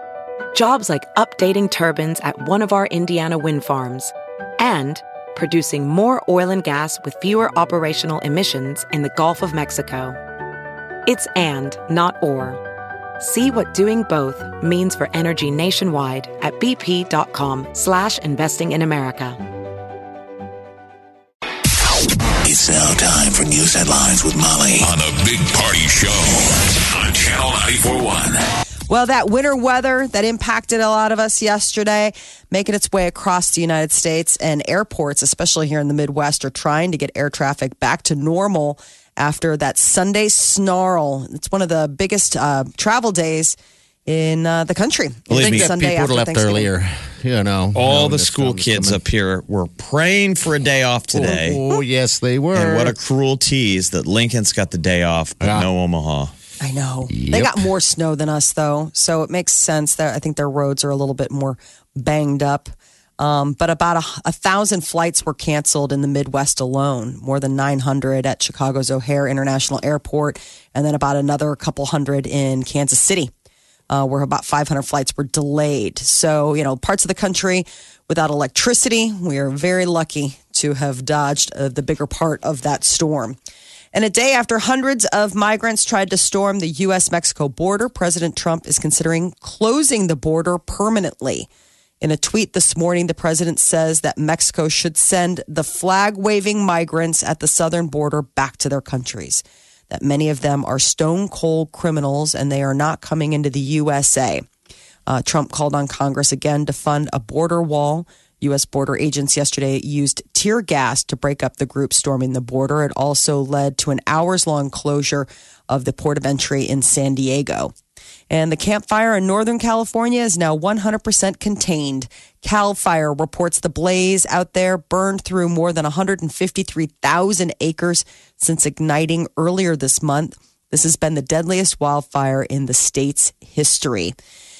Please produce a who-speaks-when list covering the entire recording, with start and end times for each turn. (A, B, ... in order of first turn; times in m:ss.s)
0:00.5-0:10.2 A
0:11.0-0:12.6 A
0:13.2-0:19.4 A
0:22.4-0:28.4 B
0:28.9-0:46.7 C
0:45.3-0:45.7 D
0:45.3-0:49.0 E
0:47.7-0:51.6 D
0:51.1-0:53.0 E
0:52.5-0:56.3 D
0:55.4-0:55.7 E
0:56.6-1:13.3 C
0:57.1-0:57.7 E
1:13.9-1:23.4 C
1:23.9-1:31.5 C
1:32.0-1:44.4 C
1:45.1-1:57.7 C
1:58.3-2:14.1 C